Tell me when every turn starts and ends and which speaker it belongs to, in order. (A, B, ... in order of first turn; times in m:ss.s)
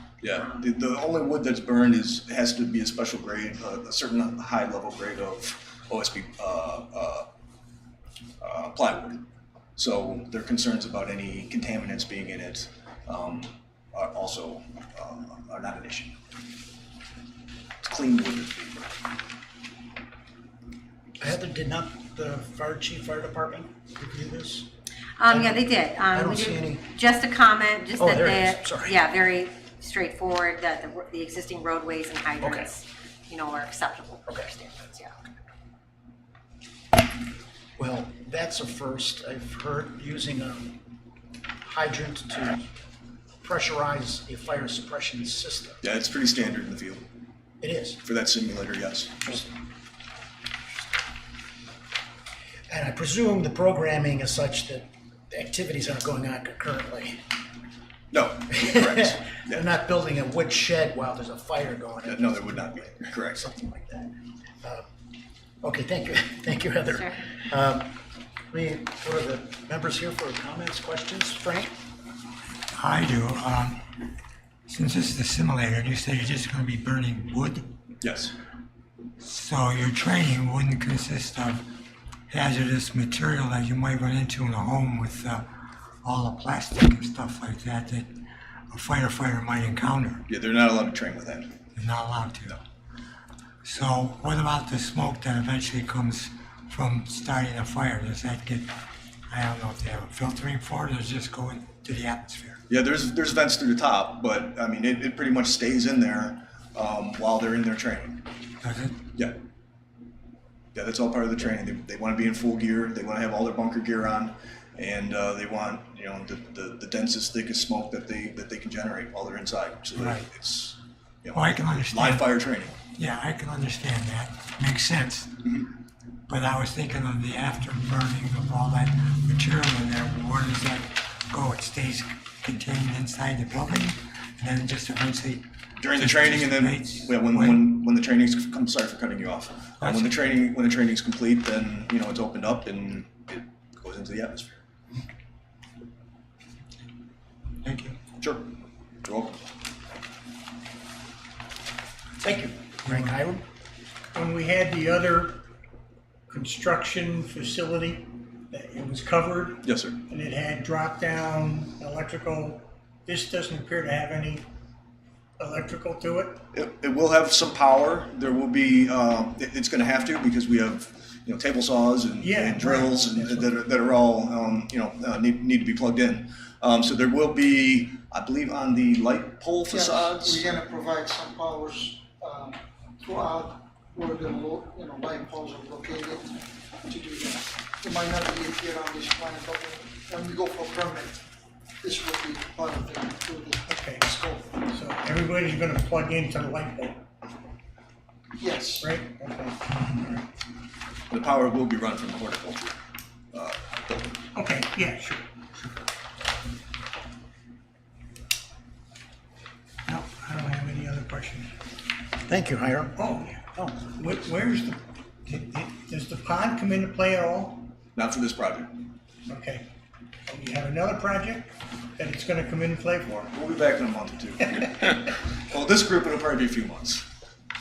0:00.2-0:07.3 A
0:00.3-0:00.7 B
0:08.4-0:09.2 A
0:09.8-0:16.1 A
0:17.8-0:18.9 A
0:21.2-0:24.7 C
0:25.2-0:35.2 B
0:25.3-0:26.8 C
0:28.0-0:29.0 C
0:32.4-0:32.7 C
0:37.8-0:40.8 C
0:41.6-0:42.6 C
0:43.4-0:45.8 C
0:45.8-0:47.0 A
0:47.6-0:48.0 C
0:48.0-0:49.4 A
0:52.7-0:57.2 C
0:58.1-0:59.6 A
0:58.5-1:04.1 C
1:02.0-1:03.4 A
1:05.6-1:07.9 C
1:06.9-1:07.2 B
1:08.5-1:11.7 C
1:12.7-1:13.8 D
1:14.7-1:17.7 D
1:18.0-1:18.3 A
1:19.2-1:21.6 D
1:22.3-1:25.4 D
1:26.0-1:28.1 D
1:28.7-1:30.3 D
1:30.3-1:31.6 A
1:31.7-1:32.6 D
1:33.6-1:38.7 D
1:39.3-1:42.6 D
1:42.7-1:48.2 A
1:48.6-1:49.0 D
1:50.7-2:02.8 A
1:59.9-2:00.3 D
2:01.3-2:05.6 D
2:06.3-2:17.8 D
2:15.8-2:24.6 A
2:19.8-2:20.2 D
2:27.6-2:28.0 D
2:28.2-2:29.4 A
2:32.2-2:33.4 C
2:32.8-2:33.1 D
2:34.1-2:35.4 E
2:36.3-2:44.5 E
2:39.6-2:40.0 A
2:45.4-2:46.4 E
2:46.5-3:00.5 A
2:52.2-2:53.5 E
2:59.7-3:11.2 F
3:11.8-3:14.6 F
3:13.7-3:17.0 E
3:18.4-3:19.0 F
3:18.8-3:20.2 E
3:21.1-3:22.8 A
3:23.3-3:24.2 A
3:24.3-3:25.7 E
3:29.9-3:31.5 E
3:32.2-3:33.0 C
3:33.0-3:37.7 E
3:37.9-3:38.8 A
3:39.3-3:39.7 E
3:40.3-3:43.2 E
3:43.2-3:47.0 A